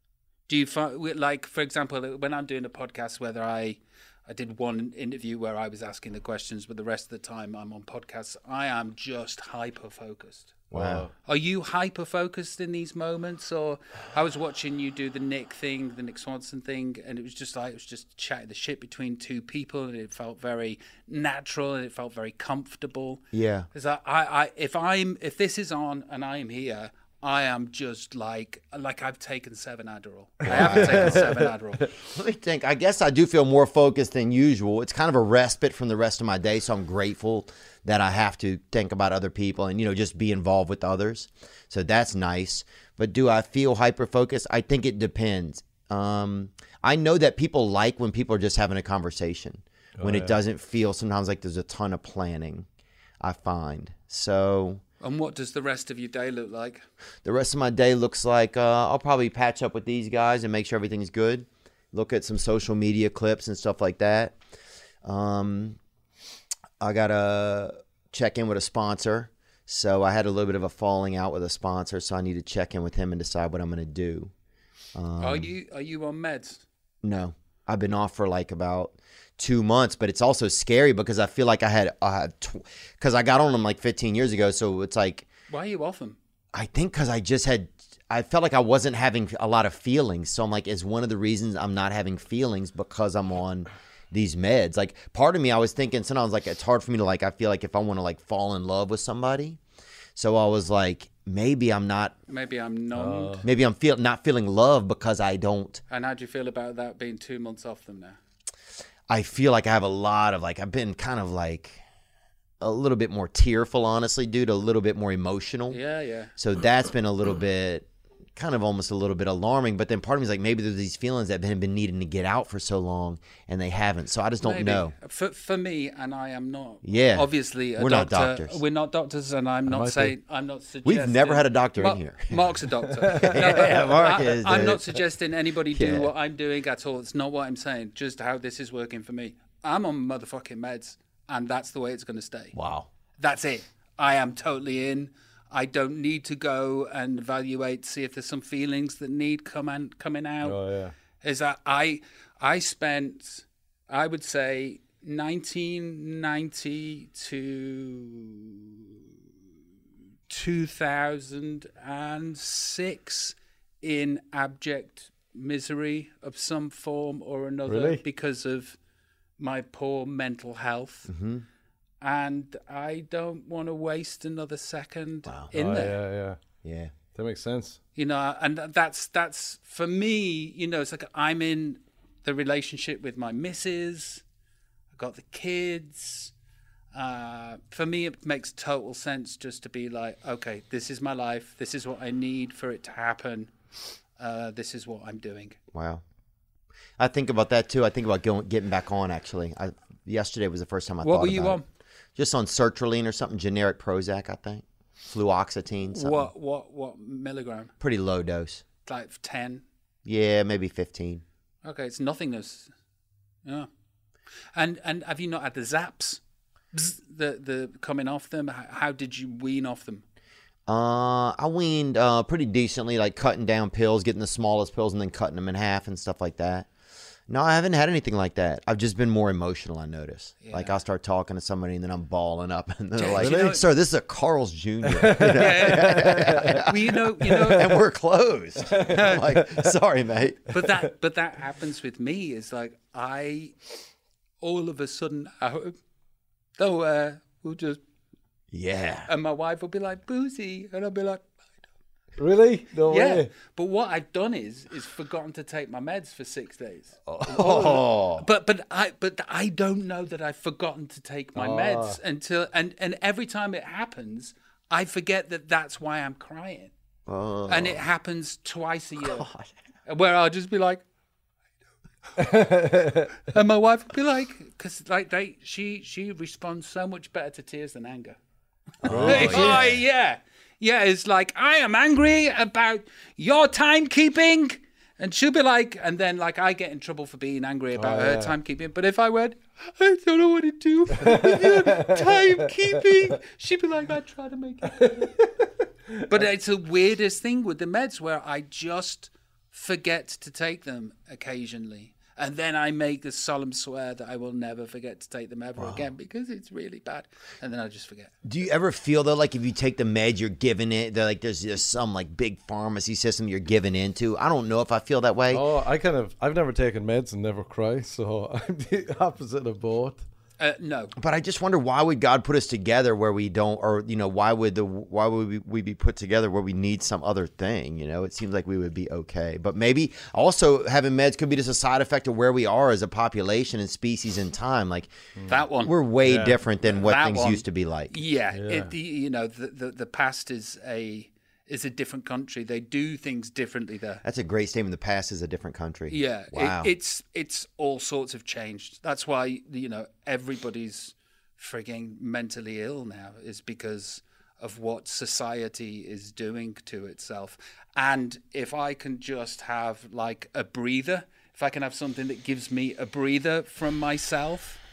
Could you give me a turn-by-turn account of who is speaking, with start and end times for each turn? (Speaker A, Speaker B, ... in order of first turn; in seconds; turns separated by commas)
Speaker A: 0.5-10.6, Speaker B: 10.7-11.1, Speaker C: 10.7-11.1, Speaker A: 11.3-31.9, Speaker B: 23.3-23.7, Speaker C: 30.4-31.5, Speaker B: 30.5-31.3, Speaker B: 32.0-52.7, Speaker C: 50.0-50.4, Speaker B: 53.2-54.8, Speaker A: 55.0-56.8, Speaker B: 57.2-64.4, Speaker B: 65.0-65.8, Speaker B: 66.8-74.3, Speaker B: 75.0-75.5, Speaker A: 75.2-76.6, Speaker B: 77.0-85.3, Speaker A: 85.5-86.2, Speaker B: 86.5-99.6, Speaker B: 100.2-102.2, Speaker A: 102.3-103.5, Speaker C: 102.9-103.5, Speaker B: 103.4-105.8, Speaker A: 105.9-108.2, Speaker B: 109.1-111.8, Speaker B: 112.6-115.8, Speaker A: 115.7-116.3, Speaker B: 116.4-124.9, Speaker A: 124.4-142.6, Speaker B: 126.8-128.6, Speaker C: 129.7-130.2, Speaker B: 130.8-132.6, Speaker C: 133.0-133.8, Speaker B: 133.2-134.9, Speaker B: 135.7-136.1, Speaker B: 142.6-142.9, Speaker A: 143.2-150.6, Speaker C: 150.4-150.9, Speaker A: 151.2-158.8, Speaker A: 160.3-168.8, Speaker C: 167.7-168.0, Speaker A: 169.4-171.1, Speaker B: 171.1-171.4, Speaker A: 172.0-176.0, Speaker B: 175.3-175.5, Speaker C: 175.5-176.4, Speaker B: 176.6-176.9, Speaker C: 177.1-177.8, Speaker A: 177.9-184.2, Speaker A: 184.9-186.3, Speaker A: 186.9-193.5, Speaker A: 194.2-195.6, Speaker B: 195.7-196.0, Speaker B: 197.0-201.6, Speaker A: 201.0-201.7, Speaker B: 202.2-206.3, Speaker A: 205.9-207.7, Speaker B: 207.8-208.6, Speaker A: 208.9-209.6, Speaker B: 210.1-211.2, Speaker A: 211.6-212.7, Speaker A: 214.6-216.2, Speaker A: 216.7-220.0, Speaker B: 220.7-226.7, Speaker B: 227.3-240.5, Speaker A: 230.4-230.8, Speaker A: 232.9-233.6, Speaker C: 233.2-233.6, Speaker C: 234.9-236.7, Speaker A: 235.3-237.8, Speaker C: 237.3-237.6, Speaker C: 238.7-239.7, Speaker A: 238.9-239.2, Speaker A: 240.5-243.6, Speaker C: 240.6-240.8, Speaker A: 244.4-245.8, Speaker A: 246.6-247.8, Speaker B: 248.5-249.1, Speaker A: 249.1-251.3, Speaker C: 252.2-253.3, Speaker A: 252.9-266.7, Speaker B: 257.1-258.3, Speaker C: 257.4-257.7, Speaker C: 261.4-262.0, Speaker B: 267.1-267.8, Speaker A: 267.5-269.3, Speaker B: 269.0-269.5, Speaker A: 269.9-270.8, Speaker C: 272.2-273.2, Speaker A: 273.2-278.2, Speaker B: 278.8-279.8, Speaker C: 278.9-279.7, Speaker A: 279.0-295.2, Speaker C: 287.8-288.4, Speaker C: 290.9-292.5, Speaker C: 294.7-296.3, Speaker A: 296.1-308.1, Speaker B: 305.6-305.9, Speaker B: 308.2-315.4, Speaker C: 315.3-320.0, Speaker A: 320.4-320.9, Speaker B: 321.0-334.9, Speaker A: 335.3-335.7, Speaker B: 335.6-338.0, Speaker C: 336.0-336.4, Speaker A: 336.6-344.0, Speaker C: 338.3-338.7, Speaker B: 344.0-346.7, Speaker A: 345.9-364.6